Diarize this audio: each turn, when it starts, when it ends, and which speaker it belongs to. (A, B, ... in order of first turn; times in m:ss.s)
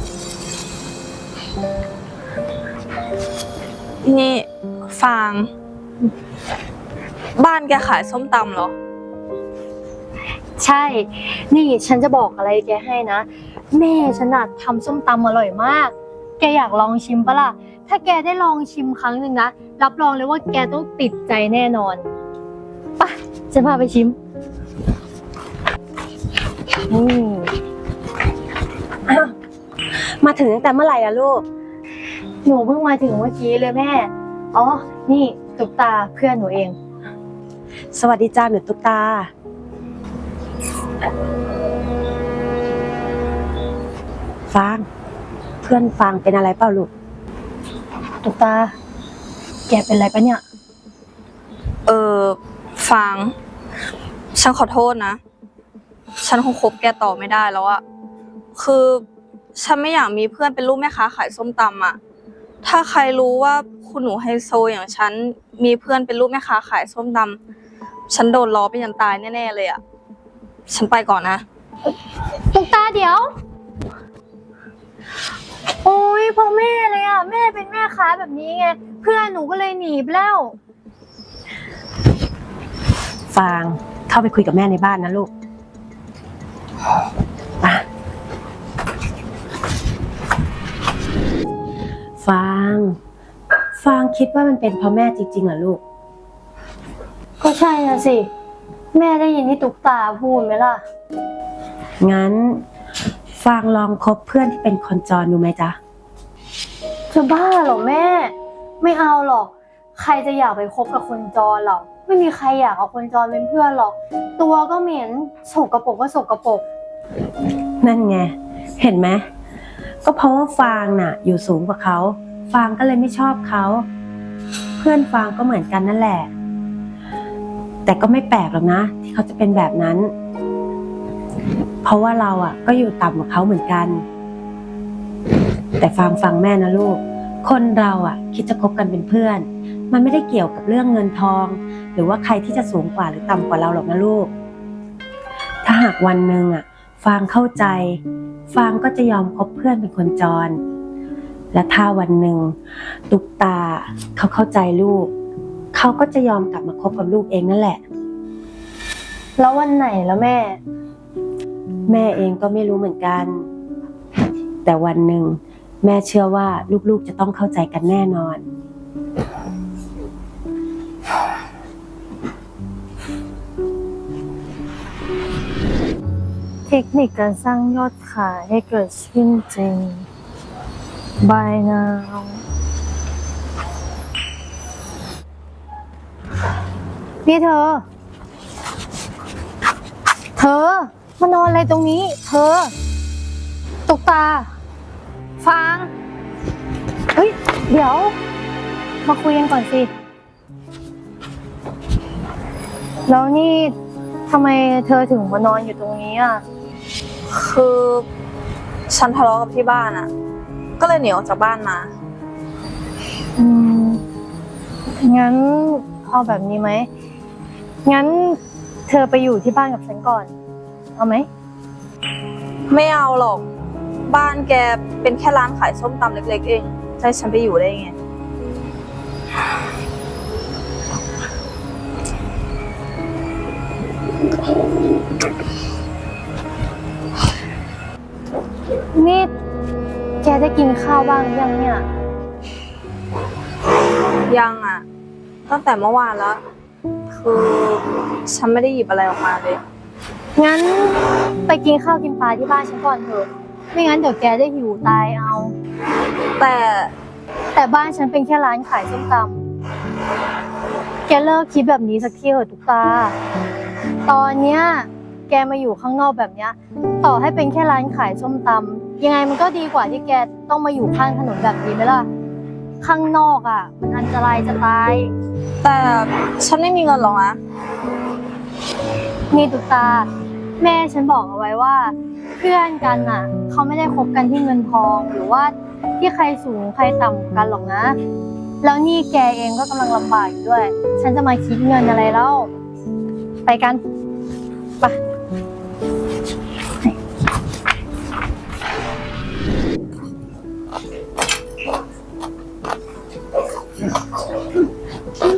0:04.0-0:05.5 A
0:07.4-0:08.7 A
0:10.6-0:22.0 B
0:23.0-0:24.2 B
0:26.9-0:27.5 B
0:29.1-0:29.3 C
0:30.2-0:31.4 C
0:32.4-0:36.8 B
0:37.9-0:39.3 C
0:44.5-0:44.9 C
0:45.6-0:46.9 C
0:48.2-0:48.7 B
0:49.7-0:50.4 B
0:51.9-0:53.3 A
0:54.4-0:55.2 A
0:56.2-0:57.8 A
0:58.6-0:59.0 A
0:59.6-1:02.0 A
1:02.6-1:07.4 A
1:08.1-1:09.8 A
1:10.7-1:11.4 A
1:12.5-1:13.3 B
1:15.8-1:20.6 B
1:23.3-1:25.3 C
1:32.2-1:33.0 C
1:33.8-1:35.8 C
1:37.4-1:38.3 B
1:38.9-1:40.8 B
1:42.0-1:42.6 C
1:43.4-1:45.8 C
1:47.1-1:56.6 B
1:57.8-1:59.2 C
2:00.0-2:03.9 C
2:04.8-2:06.3 C
2:07.9-2:10.1 C
2:11.8-2:14.0 C
2:15.8-2:24.3 C
2:25.6-2:28.0 C
2:28.5-2:30.6 C
2:31.5-2:32.6 C
2:33.1-2:35.1 C
2:35.7-2:37.8 C
2:39.4-2:40.6 B
2:41.9-2:43.5 C
2:44.6-2:48.4 C
2:56.7-3:00.1 B
3:01.2-3:02.4 B
3:07.2-3:07.8 B
3:10.4-3:12.7 B
3:13.9-3:14.5 B
3:15.4-3:15.9 B
3:17.1-3:18.2 B
3:19.0-3:19.9 B
3:23.1-3:23.7 B
3:24.3-3:26.4 B
3:27.3-3:28.1 A
3:28.9-3:30.1 A
3:30.8-3:31.9 A
3:33.4-3:34.0 B
3:35.0-3:36.9 B
3:37.8-3:40.3 B
3:41.0-3:41.3 B
3:42.7-3:43.5 A
3:44.1-3:47.9 A
3:58.9-3:59.3 B
4:00.2-4:01.8 B
4:04.3-4:04.8 A
4:05.5-4:06.4 A
4:07.1-4:09.6 A
4:10.4-4:15.5 B
4:16.4-4:16.9 A
4:17.5-4:19.4 B
4:21.1-4:23.2 B
4:24.1-4:32.1 B
4:32.8-4:35.1 B
4:35.6-4:37.4 A
4:39.3-4:40.1 B
4:40.6-4:48.0 B
4:48.6-4:52.5 B
4:53.5-4:53.8 B